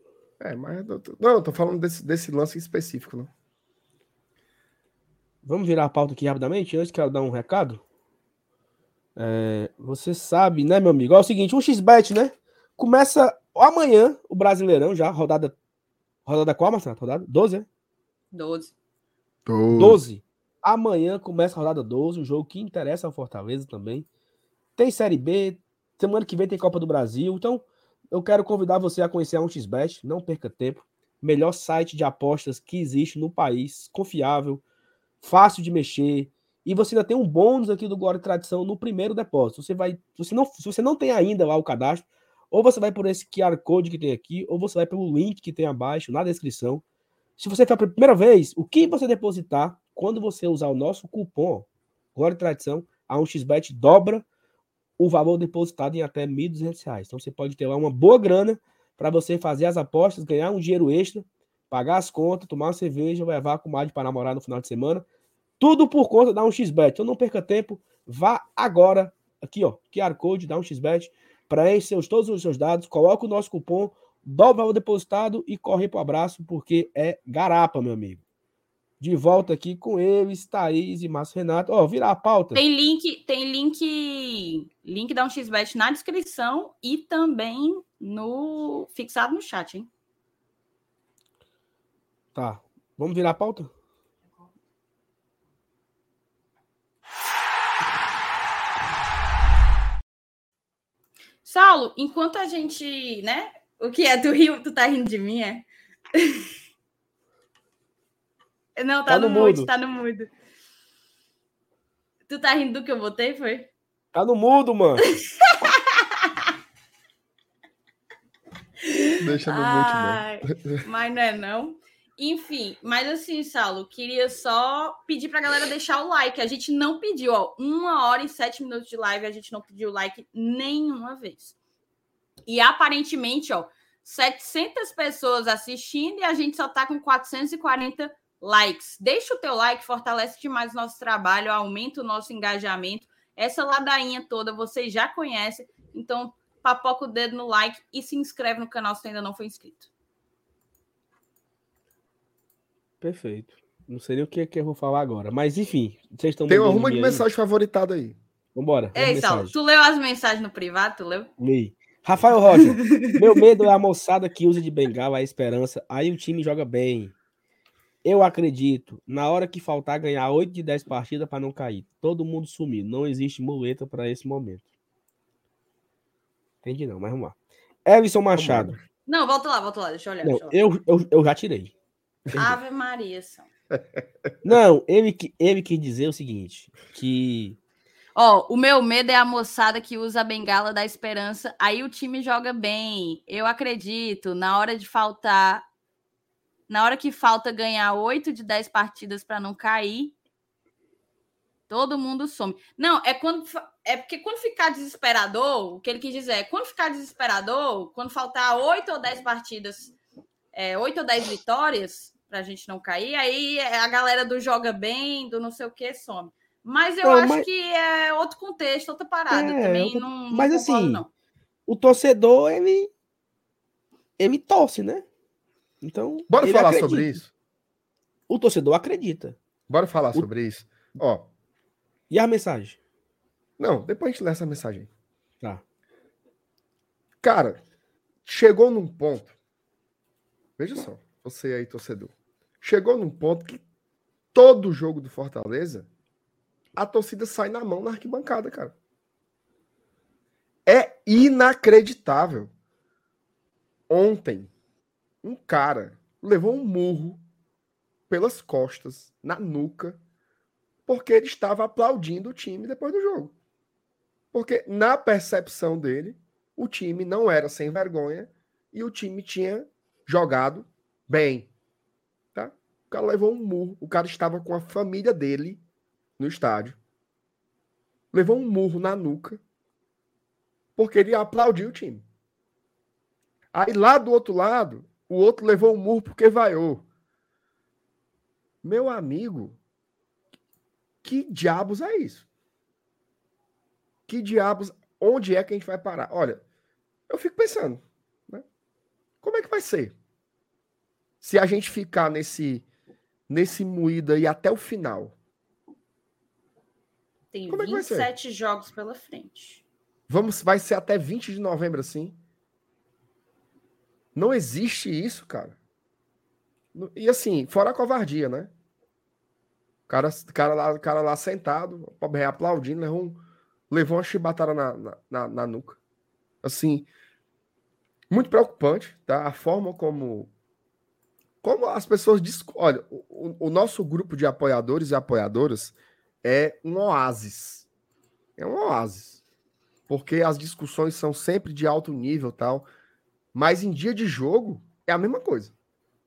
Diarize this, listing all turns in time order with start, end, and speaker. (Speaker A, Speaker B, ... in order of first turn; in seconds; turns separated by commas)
Speaker A: 0.4-3.3, Speaker B: 5.4-7.8, Speaker B: 9.2-15.6, Speaker B: 16.3-17.7, Speaker C: 18.3-18.7, Speaker A: 19.5-20.0, Speaker B: 19.8-24.1, Speaker B: 24.8-34.6, Speaker B: 35.2-46.8, Speaker B: 47.4-54.2, Speaker B: 55.0-65.0, Speaker B: 65.6-78.2, Speaker B: 79.0-82.6, Speaker C: 82.5-89.9, Speaker B: 92.3-93.7, Speaker C: 101.5-106.5, Speaker C: 108.8-110.3, Speaker B: 109.1-109.7, Speaker C: 112.3-113.7, Speaker B: 114.1-115.0, Speaker C: 115.0-116.5, Speaker C: 118.8-131.6, Speaker A: 119.2-120.8, Speaker C: 132.5-149.9, Speaker B: 153.0-157.3, Speaker A: 156.5-158.2, Speaker B: 158.6-159.6, Speaker C: 158.9-161.3, Speaker B: 161.4-167.2, Speaker C: 162.5-163.3, Speaker B: 168.0-174.7, Speaker B: 176.6-178.8, Speaker A: 178.3-178.8, Speaker C: 179.1-180.6, Speaker B: 180.2-181.7, Speaker C: 182.3-183.5, Speaker B: 184.4-187.6, Speaker C: 188.2-195.7, Speaker C: 196.7-200.2, Speaker C: 201.7-209.9, Speaker C: 210.5-221.1, Speaker B: 217.0-217.5, Speaker B: 219.3-221.0, Speaker B: 221.7-222.9, Speaker B: 224.2-225.0, Speaker B: 225.8-227.2, Speaker A: 226.3-227.3, Speaker B: 228.3-229.4, Speaker A: 229.7-231.3, Speaker B: 232.1-232.8, Speaker A: 233.6-234.9, Speaker A: 237.2-237.6, Speaker A: 238.2-239.3, Speaker A: 240.6-243.6, Speaker A: 244.3-245.9, Speaker A: 246.8-248.8, Speaker A: 250.7-252.5, Speaker A: 253.9-254.5, Speaker A: 255.2-257.2, Speaker A: 258.1-260.0, Speaker A: 260.9-263.3, Speaker A: 264.3-271.5, Speaker A: 272.3-275.6, Speaker A: 276.2-276.8, Speaker A: 278.1-279.4, Speaker A: 280.8-282.1, Speaker A: 283.5-286.9, Speaker A: 288.6-289.6, Speaker A: 291.0-292.2, Speaker A: 294.1-296.4, Speaker A: 297.1-298.4, Speaker A: 299.2-299.9, Speaker A: 301.2-302.7, Speaker A: 303.3-305.1, Speaker C: 307.3-309.6, Speaker A: 307.5-308.1, Speaker A: 310.1-312.2, Speaker A: 314.1-315.6, Speaker A: 316.7-318.5, Speaker A: 319.9-325.8, Speaker A: 326.4-326.9, Speaker A: 328.1-330.3, Speaker A: 331.4-337.7, Speaker A: 338.4-339.2, Speaker A: 339.9-342.7, Speaker A: 343.3-345.5